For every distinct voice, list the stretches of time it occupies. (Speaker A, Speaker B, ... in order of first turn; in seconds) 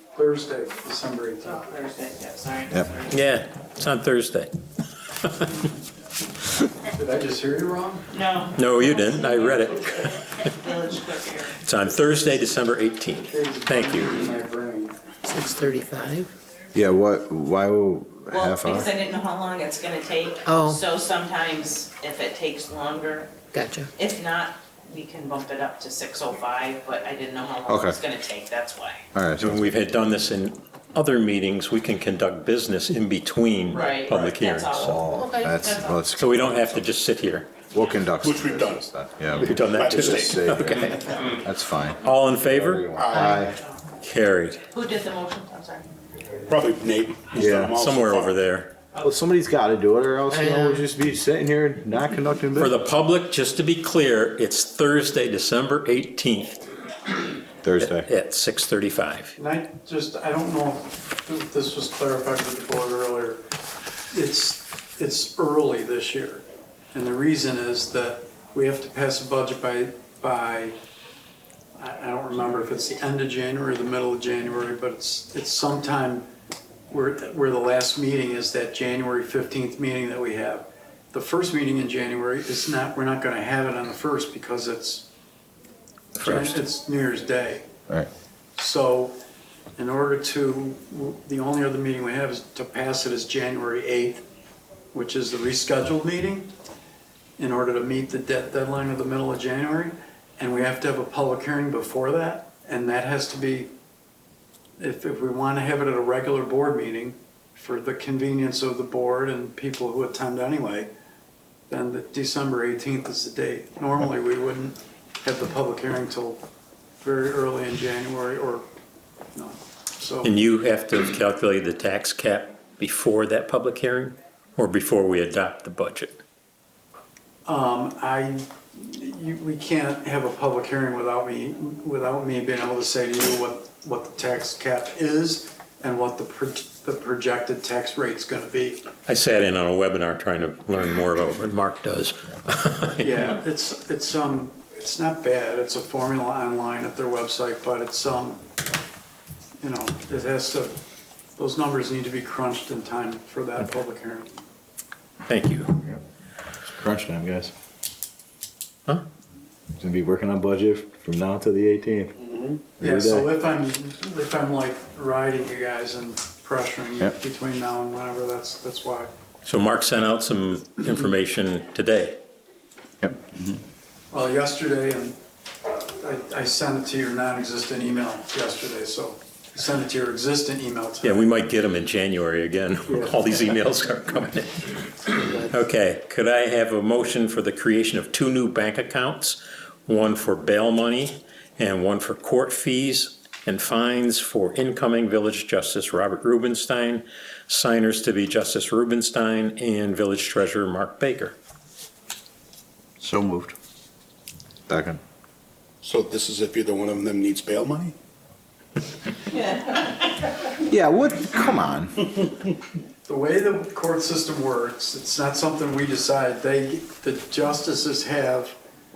Speaker A: 0.1-1.6, 6.9-8.1, 13.3-15.0, 59.4-63.4, 64.1-70.8, 71.8-76.3, 76.9-85.1, 86.2-87.7, 88.6-89.2, 89.8-94.2, 94.9-96.5, 97.4-103.7, 104.8-110.9, 111.7-116.5, 117.0-118.7, 119.3-120.3, 127.5-138.9, 143.0-148.4, 149.6-150.8, 151.4-154.4, 162.8-169.1, 174.1-175.2, 175.7-181.3, 182.9-183.2, 213.1-218.6
Speaker B: 1.4-3.2, 8.1-11.6, 18.3-29.1, 33.7-36.1, 44.7-45.9, 209.3-209.8
Speaker C: 3.1-4.5, 5.2-5.6, 8.6-10.5, 11.6-14.2, 29.4-35.0, 36.2-37.5, 39.4-41.2, 42.0-42.9, 44.0-44.6, 47.3-48.7, 52.6-56.7, 57.8-59.4, 86.2-86.6, 120.2-126.2, 139.1-143.4, 155.3-155.8, 169.4-172.2, 181.0-184.8, 185.3-201.4
Speaker D: 15.2-16.3, 20.4-20.8, 23.5-23.9, 35.1-35.5, 43.1-43.5, 50.3-50.9
Speaker E: 16.7-18.9, 27.7-28.0, 29.1-29.7, 34.8-36.9, 37.7-43.6, 47.3-47.8, 49.0-52.8, 57.6-58.1, 156.7-157.5, 159.8-162.2, 162.8-163.3, 173.0-173.6, 203.0-203.6, 204.7-205.0, 210.6-212.2
Speaker F: 38.2-38.9, 39.6-40.9, 42.9-43.3, 46.5-48.4, 205.8-207.9